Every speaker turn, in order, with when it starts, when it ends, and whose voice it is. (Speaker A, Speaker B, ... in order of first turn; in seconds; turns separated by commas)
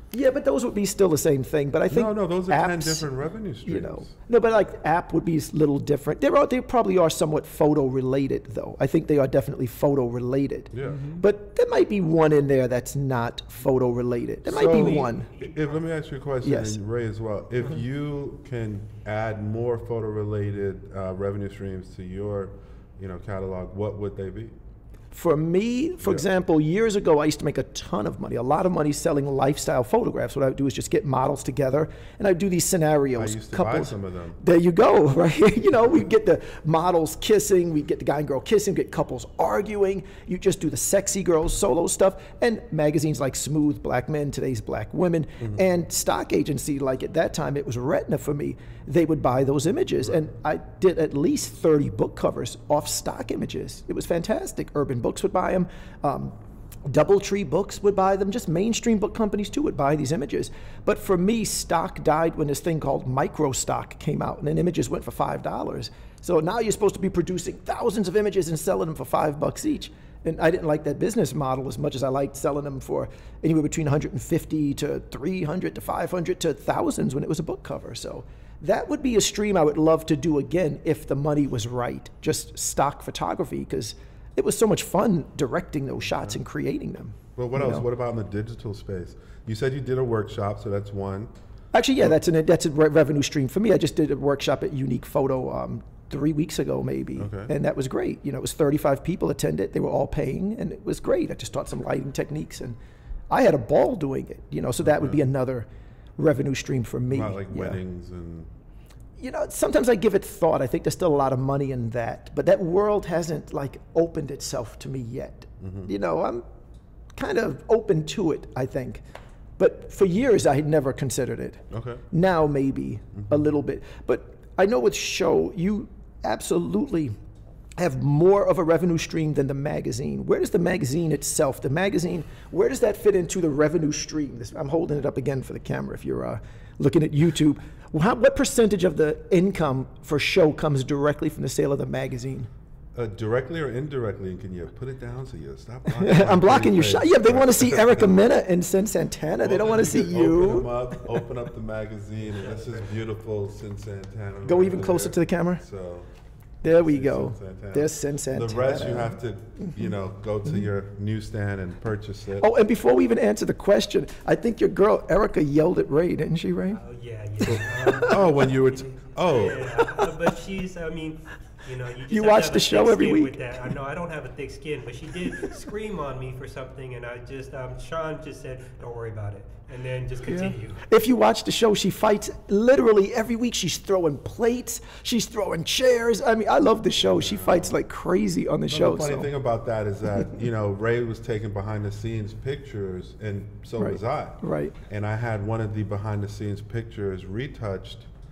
Speaker A: 0.1-3.1, Speaker B: 1.9-4.1, Speaker A: 3.6-15.3, Speaker B: 10.7-11.2, Speaker C: 10.9-11.2, Speaker B: 14.5-24.6, Speaker C: 14.5-15.8, Speaker A: 16.4-16.8, Speaker A: 25.1-87.8, Speaker B: 33.1-34.4, Speaker B: 87.3-91.3, Speaker A: 91.7-102.8, Speaker B: 97.2-97.5, Speaker A: 103.3-105.7, Speaker B: 104.8-105.2, Speaker A: 106.2-107.8, Speaker B: 107.1-108.5, Speaker A: 109.2-116.4, Speaker B: 115.6-115.9, Speaker A: 117.1-119.0, Speaker A: 119.6-127.1, Speaker B: 121.7-122.0, Speaker B: 123.1-123.5, Speaker A: 127.8-142.5, Speaker B: 142.9-148.2, Speaker A: 145.9-151.1, Speaker B: 149.4-156.1, Speaker C: 152.3-152.8, Speaker A: 154.4-155.6, Speaker A: 156.6-159.2, Speaker B: 156.6-162.5, Speaker A: 162.4-166.8, Speaker C: 166.7-168.7, Speaker A: 167.4-168.4, Speaker B: 167.5-169.8, Speaker C: 169.2-180.8, Speaker A: 169.8-170.1, Speaker A: 172.1-173.7, Speaker A: 180.3-189.3, Speaker B: 187.0-187.8, Speaker B: 188.7-198.1, Speaker A: 193.8-194.7